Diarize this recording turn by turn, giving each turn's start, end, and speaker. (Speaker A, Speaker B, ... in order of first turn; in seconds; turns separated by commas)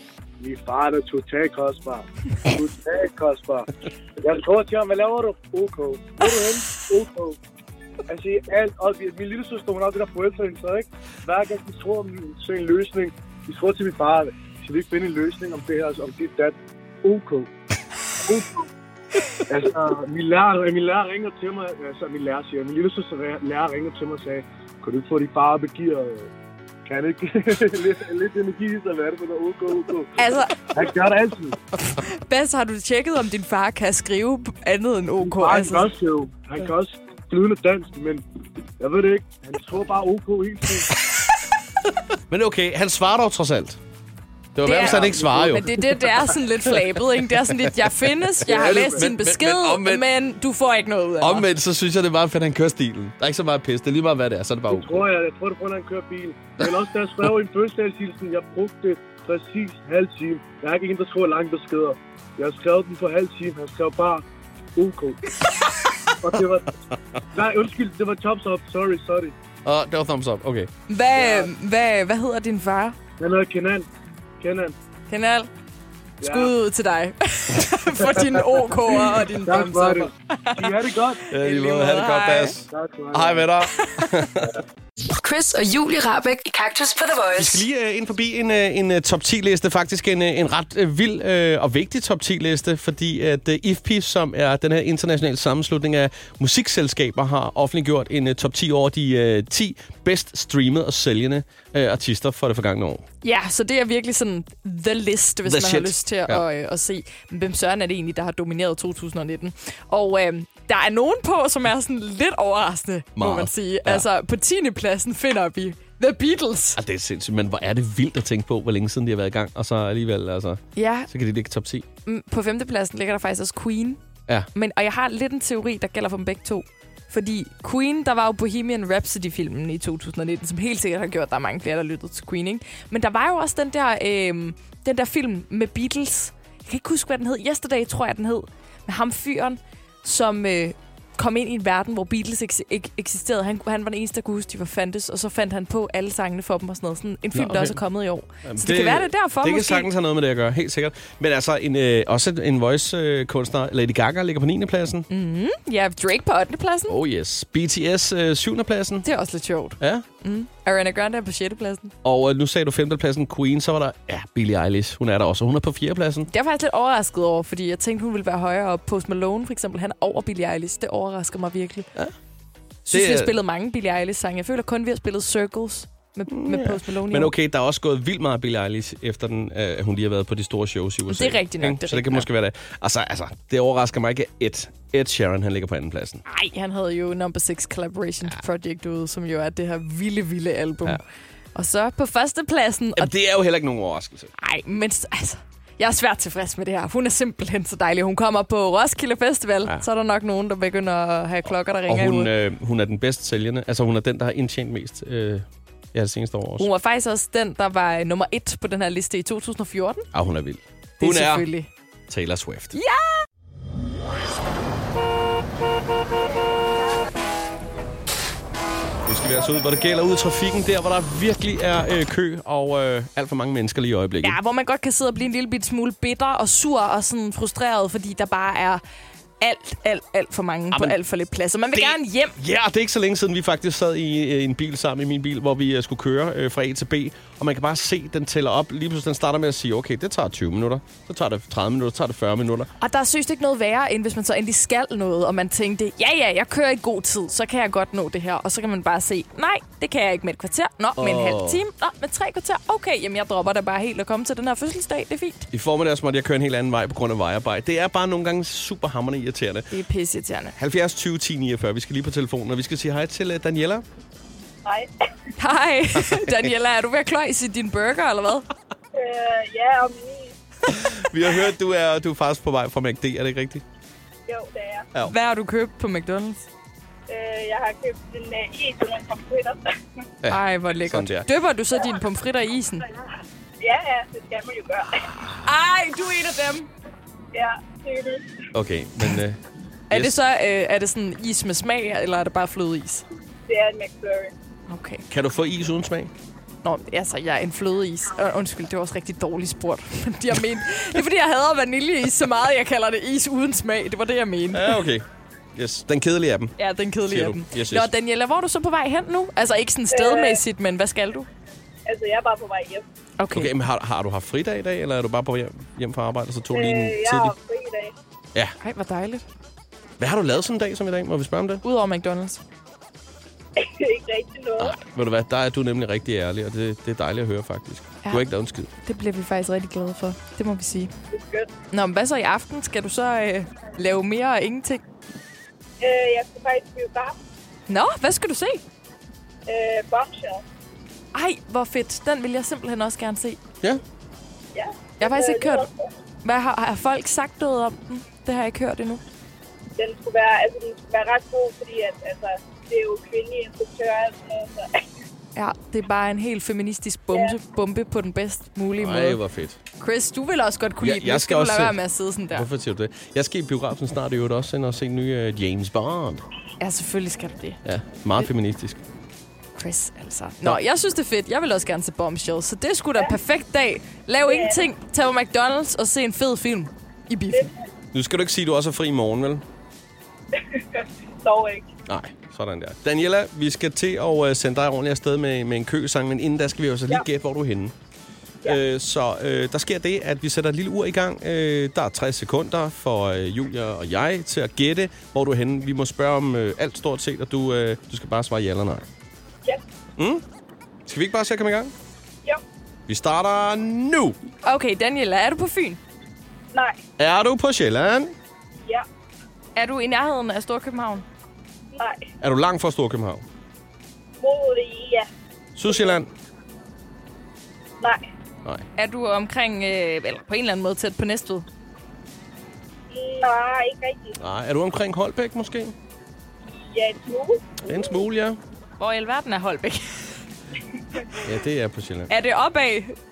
Speaker A: 0.4-7.4, Speaker A: 8.1-17.5, Speaker A: 18.2-18.7, Speaker A: 19.5-26.3, Speaker A: 26.9-30.1, Speaker B: 30.2-30.6, Speaker A: 30.7-31.6, Speaker B: 31.9-35.9, Speaker A: 35.2-38.2, Speaker A: 38.8-40.9, Speaker C: 42.3-43.8, Speaker C: 44.5-45.7, Speaker B: 44.6-51.5, Speaker A: 44.9-45.6, Speaker A: 48.5-49.0, Speaker C: 48.5-50.0, Speaker C: 51.2-55.0, Speaker A: 54.7-64.2, Speaker A: 64.8-65.2, Speaker A: 66.2-66.7, Speaker A: 67.3-69.3, Speaker C: 69.7-70.7, Speaker B: 70.9-73.0, Speaker A: 71.2-71.5, Speaker A: 73.2-73.9, Speaker A: 74.4-74.8, Speaker B: 75.1-75.5, Speaker A: 76.2-76.5, Speaker B: 76.2-82.5, Speaker A: 78.0-81.2, Speaker C: 81.3-84.6, Speaker A: 82.7-83.5, Speaker B: 83.8-84.1, Speaker D: 85.1-87.6, Speaker C: 87.4-103.0, Speaker B: 103.2-116.8, Speaker C: 105.5-106.4, Speaker C: 113.2-114.0, Speaker C: 116.8-121.9, Speaker B: 120.8-121.1, Speaker B: 122.1-124.0, Speaker B: 124.5-149.9, Speaker C: 147.3-147.8, Speaker C: 148.4-155.1, Speaker B: 155.1-157.0, Speaker C: 156.9-159.1, Speaker B: 159.0-161.9, Speaker C: 159.8-160.1, Speaker C: 162.0-166.3, Speaker B: 166.3-171.9, Speaker B: 172.9-177.3, Speaker C: 172.9-173.3, Speaker C: 176.3-186.2, Speaker B: 181.1-182.3, Speaker B: 186.3-191.0, Speaker B: 191.6-193.1, Speaker C: 193.0-194.3, Speaker B: 194.4-202.3, Speaker C: 201.9-206.7, Speaker B: 206.6-210.1, Speaker C: 210.1-211.5, Speaker B: 211.0-211.7, Speaker C: 212.1-212.8, Speaker B: 212.7-213.2, Speaker C: 219.1-224.4, Speaker B: 224.2-228.8, Speaker B: 229.4-232.4, Speaker C: 230.7-231.0, Speaker C: 231.8-242.7, Speaker B: 242.8-255.5, Speaker C: 251.0-251.6, Speaker C: 255.5-259.7, Speaker B: 259.7-260.6, Speaker C: 260.6-263.8, Speaker E: 264.6-264.9, Speaker B: 265.4-268.5, Speaker E: 268.9-270.3, Speaker C: 270.7-273.6, Speaker E: 274.3-274.9, Speaker B: 275.1-276.5, Speaker E: 277.1-279.7, Speaker C: 280.2-281.3, Speaker B: 280.3-282.9, Speaker E: 283.6-285.0, Speaker B: 285.4-286.7, Speaker E: 287.3-288.3, Speaker C: 288.5-289.4, Speaker B: 289.9-293.1, Speaker C: 289.9-290.2, Speaker E: 293.5-294.3, Speaker B: 294.7-295.1, Speaker C: 295.1-296.1, Speaker B: 296.6-304.8, Speaker C: 304.5-305.0, Speaker C: 305.6-306.5, Speaker B: 306.6-311.3, Speaker C: 307.1-307.9, Speaker E: 309.9-310.4, Speaker E: 311.9-312.9, Speaker B: 313.2-313.5, Speaker C: 313.3-317.3, Speaker E: 316.5-317.9, Speaker B: 318.6-319.2, Speaker C: 320.0-321.6, Speaker B: 321.6-322.4, Speaker E: 323.6-324.8, Speaker C: 324.6-328.7, Speaker B: 328.8-330.9, Speaker E: 331.1-331.5, Speaker B: 331.7-334.8, Speaker E: 335.8-337.2, Speaker B: 337.7-338.6, Speaker E: 339.5-340.4, Speaker B: 341.1-343.4, Speaker E: 344.5-345.9, Speaker B: 345.0-345.7, Speaker B: 346.2-349.0, Speaker E: 349.8-354.8, Speaker B: 355.4-359.2, Speaker C: 358.8-359.6, Speaker B: 359.8-362.5, Speaker C: 360.8-361.8, Speaker C: 362.3-366.2, Speaker B: 366.6-367.6, Speaker C: 367.6-368.8, Speaker B: 369.6-377.5, Speaker E: 374.2-374.7, Speaker C: 377.9-379.4, Speaker E: 380.4-381.7, Speaker C: 381.9-387.7, Speaker C: 388.4-398.9, Speaker C: 400.0-400.2, Speaker C: 400.9-401.7, Speaker C: 402.9-404.2, Speaker B: 404.4-405.8, Speaker C: 407.0-408.1, Speaker B: 409.6-411.1, Speaker E: 411.8-412.0, Speaker C: 412.2-413.2, Speaker E: 414.2-415.1, Speaker C: 415.6-416.1, Speaker E: 415.7-415.9, Speaker B: 418.8-421.5, Speaker E: 422.9-424.2, Speaker C: 424.2-425.7, Speaker E: 426.6-427.5, Speaker C: 427.6-428.4, Speaker B: 428.8-430.2, Speaker C: 431.2-432.1, Speaker B: 432.1-432.9